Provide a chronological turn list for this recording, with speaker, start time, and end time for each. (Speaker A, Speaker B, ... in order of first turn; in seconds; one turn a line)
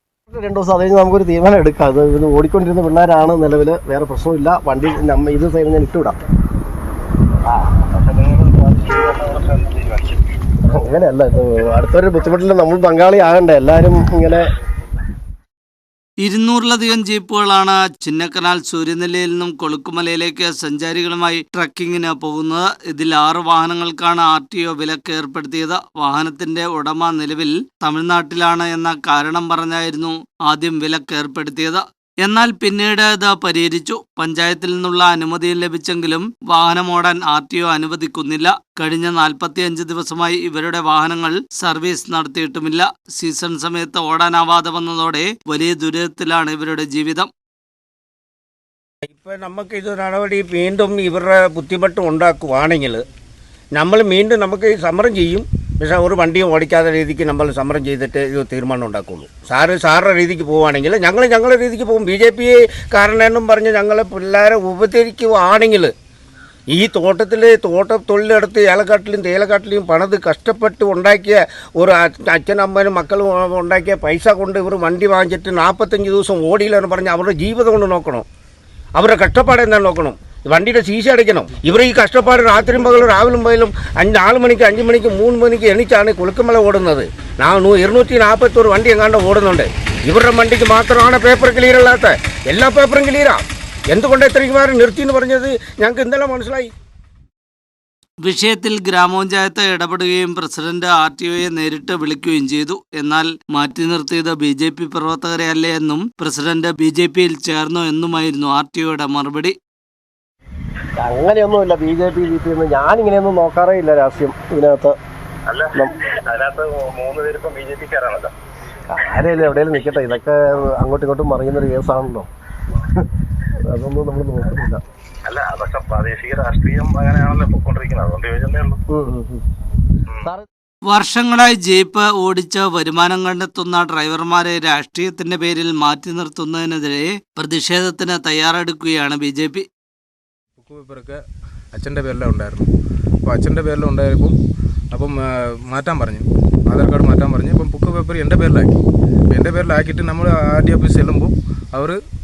Speaker A: 0.3-6.2
Speaker B: 7.5-10.4
Speaker A: 10.7-14.5
Speaker C: 16.2-47.3
Speaker D: 49.0-53.0
Speaker D: 53.8-65.9
Speaker D: 66.7-78.2
Speaker D: 79.0-96.7
Speaker C: 98.2-109.5
Speaker A: 111.0-115.0
Speaker B: 115.5-118.3
Speaker A: 118.9-122.3
Speaker A: 123.6-124.8
Speaker B: 125.2-128.8
Speaker A: 128.9-129.4
Speaker C: 130.9-139.6
Speaker E: 140.6-141.2
Speaker E: 141.7-142.7
Speaker E: 143.2-144.3
Speaker E: 144.9-148.7
Speaker E: 149.3-152.0